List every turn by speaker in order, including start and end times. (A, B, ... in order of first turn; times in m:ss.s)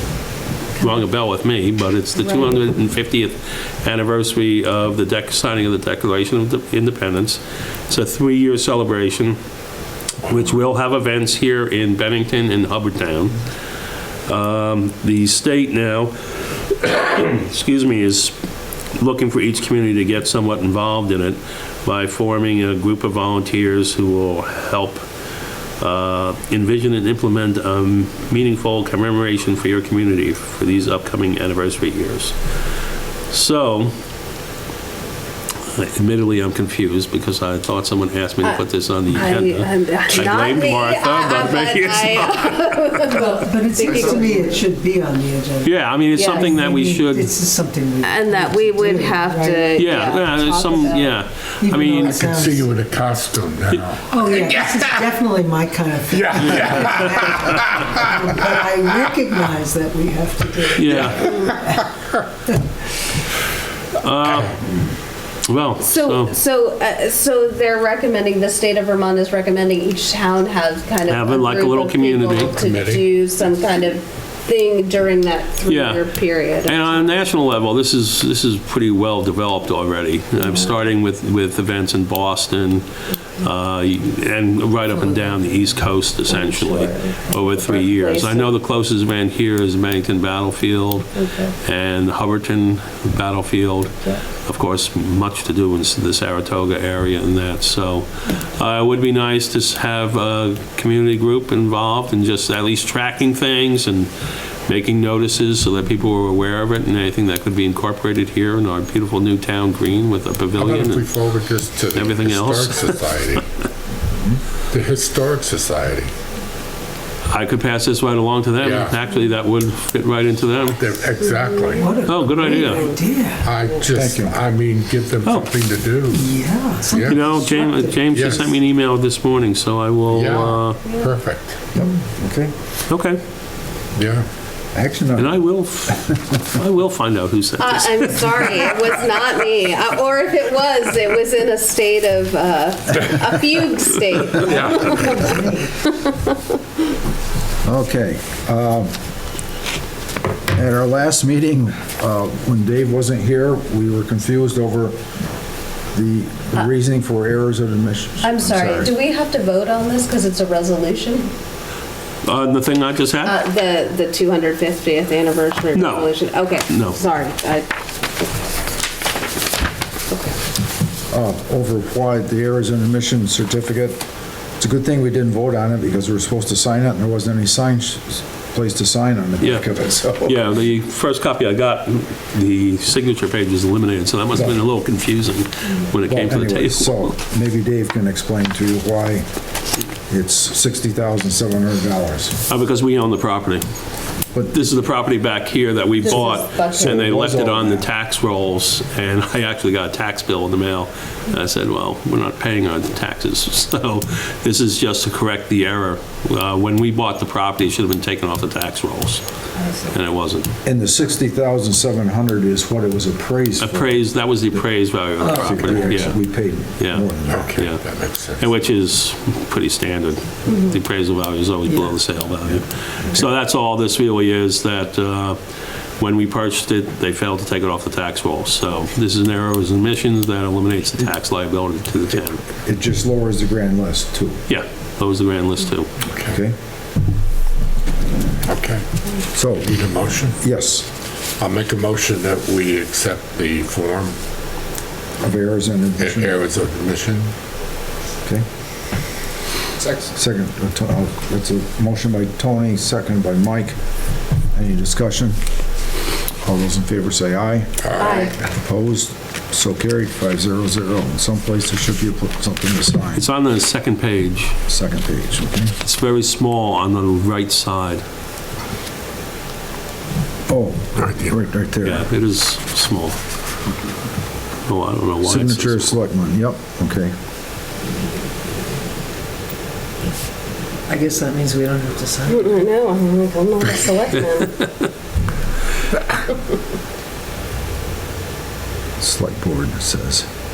0:00.8-0:09.4 A
0:10.2-0:13.4 A
0:14.3-0:16.2 A
0:16.7-0:18.3 A
0:18.9-0:25.0 A
0:25.8-0:32.4 A
0:33.3-0:33.9 A
0:35.7-0:42.6 A
0:38.4-0:44.6 B
0:43.1-0:49.8 C
0:45.6-0:47.3 A
0:46.1-0:46.5 B
0:48.0-0:51.2 B
0:49.7-0:52.2 A
0:51.6-0:52.7 C
0:52.0-0:55.1 D
0:54.1-1:01.9 C
0:56.1-0:58.5 D
1:00.7-1:01.4 A
1:00.9-1:01.2 D
1:04.0-1:04.6 A
1:04.2-1:04.5 D
1:05.4-1:06.3 A
1:05.8-1:17.1 B
1:11.1-1:12.6 A
1:12.5-1:13.1 D
1:15.7-1:22.9 A
1:23.4-1:44.1 A
1:26.3-1:28.5 B
1:31.2-1:31.6 B
1:44.7-1:51.1 A
1:50.6-1:53.4 D
1:51.9-1:53.0 A
1:54.7-1:56.1 D
1:57.3-2:00.8 A
1:58.6-1:59.0 D
2:00.7-2:02.0 D
2:01.2-2:04.0 B
2:01.8-2:03.6 C
2:02.0-2:02.9 A
2:03.4-2:06.3 D
2:03.9-2:04.4 E
2:05.2-2:05.5 A
2:06.1-2:08.0 C
2:06.9-2:07.2 D
2:07.0-2:10.8 A
2:08.1-2:08.5 D
2:10.1-2:11.6 D
2:10.8-2:11.1 B
2:11.7-2:12.5 E
2:12.9-2:13.2 A
2:13.9-2:14.2 D
2:14.7-2:16.4 E
2:15.2-2:18.7 A
2:17.6-2:26.4 B
2:24.3-2:25.2 D
2:24.4-2:25.8 C
2:27.6-2:28.9 E
2:30.5-2:35.0 E
2:35.9-2:38.9 E
2:38.2-2:41.3 B
2:42.2-2:43.4 A
2:43.2-2:47.7 B
2:45.7-2:46.1 A
2:46.7-2:47.0 A
2:50.1-2:50.4 B
2:51.1-2:54.0 E
2:54.6-3:00.4 E
2:59.4-2:59.7 A
3:00.2-3:07.1 A
3:04.3-3:04.6 E
3:06.1-3:09.2 E
3:10.1-3:12.4 E
3:12.5-3:13.6 A
3:14.3-3:14.7 E
3:14.5-3:29.2 A
3:16.0-3:17.0 B
3:16.8-3:17.9 E
3:29.9-3:30.5 A
3:30.6-3:33.9 E
3:33.6-3:36.2 A
3:35.2-3:36.0 C
3:35.3-3:37.6 E
3:36.8-3:45.4 A
3:37.3-3:38.6 D
3:41.7-3:42.5 C
3:46.0-3:52.4 A
3:52.6-3:54.4 E
3:54.5-3:55.9 A
3:56.1-3:56.4 D
3:56.2-3:56.5 E
3:58.4-3:58.8 D
3:59.3-4:00.8 E
3:59.7-4:00.4 D
4:01.4-4:04.1 D
4:05.2-4:06.4 E
4:06.0-4:07.3 D
4:10.1-4:13.8 E
4:14.6-4:15.4 E
4:16.4-4:23.2 E
4:17.8-4:18.3 D
4:18.0-4:18.4 B
4:23.1-4:24.6 A
4:24.7-4:25.8 E
4:25.8-4:28.0 A
4:30.5-4:32.1 E
4:31.0-4:31.3 D
4:31.8-4:33.2 A
4:34.6-4:35.9 A
4:35.2-4:37.1 E
4:40.9-4:42.6 C
4:42.3-4:44.6 B
4:44.6-4:44.9 A
4:49.0-4:50.3 E